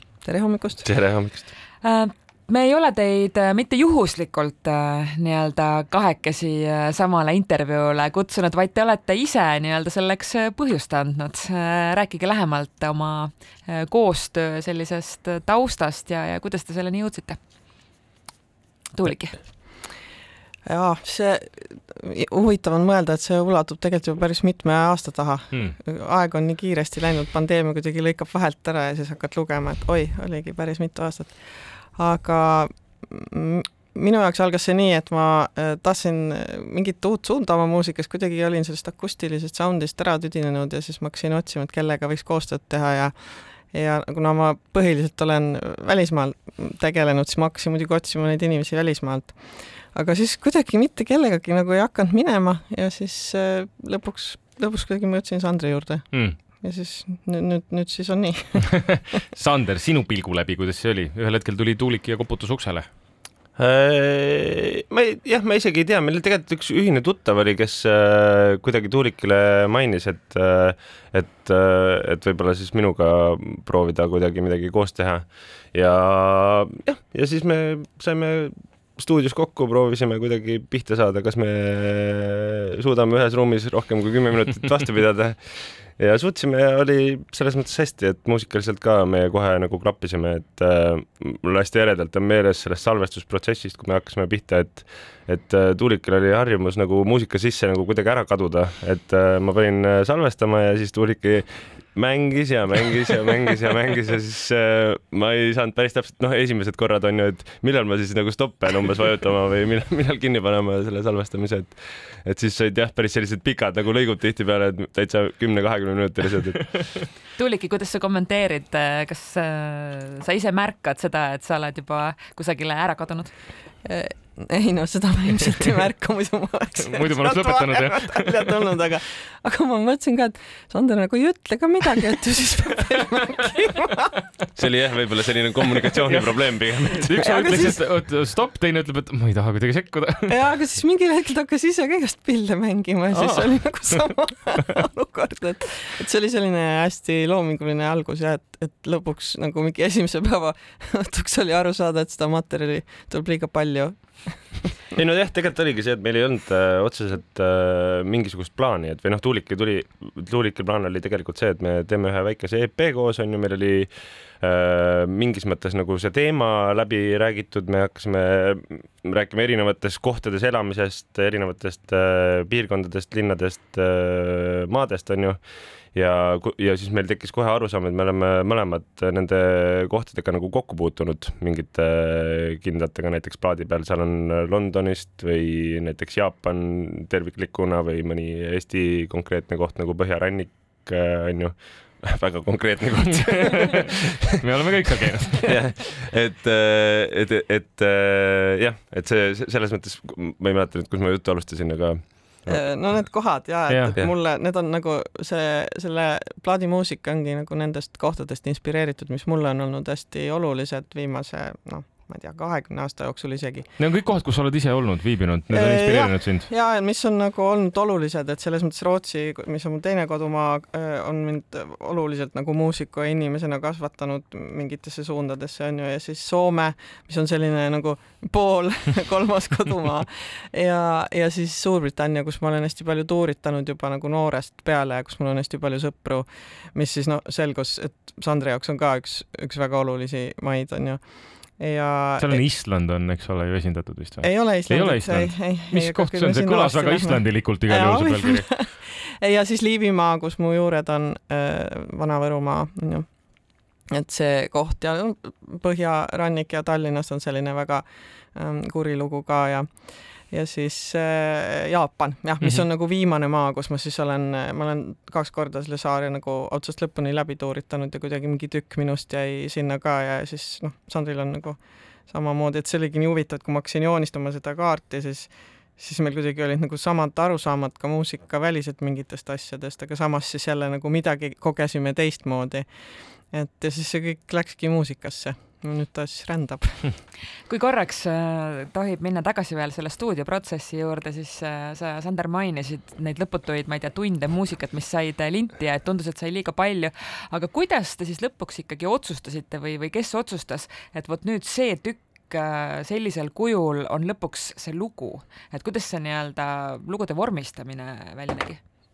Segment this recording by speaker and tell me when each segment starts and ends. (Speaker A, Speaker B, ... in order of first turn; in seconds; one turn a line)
Speaker A: 0.2-0.8
Speaker B: 0.8-1.5
Speaker C: 1.8-17.4
Speaker C: 18.9-19.7
Speaker A: 20.6-58.6
Speaker D: 56.1-56.4
Speaker D: 58.8-62.9
Speaker B: 63.5-116.8
Speaker C: 117.3-123.3
Speaker A: 123.8-134.1
Speaker D: 127.0-128.2
Speaker B: 134.5-137.3
Speaker A: 137.0-137.8
Speaker D: 137.1-140.3
Speaker A: 140.3-154.8
Speaker B: 154.9-175.4
Speaker B: 175.9-194.4
Speaker D: 194.4-195.5
Speaker B: 195.5-203.1
Speaker A: 202.5-213.7
Speaker D: 213.8-216.5
Speaker A: 215.5-242.4
Speaker D: 242.2-248.4
Speaker A: 244.2-287.0
Speaker C: 287.5-308.6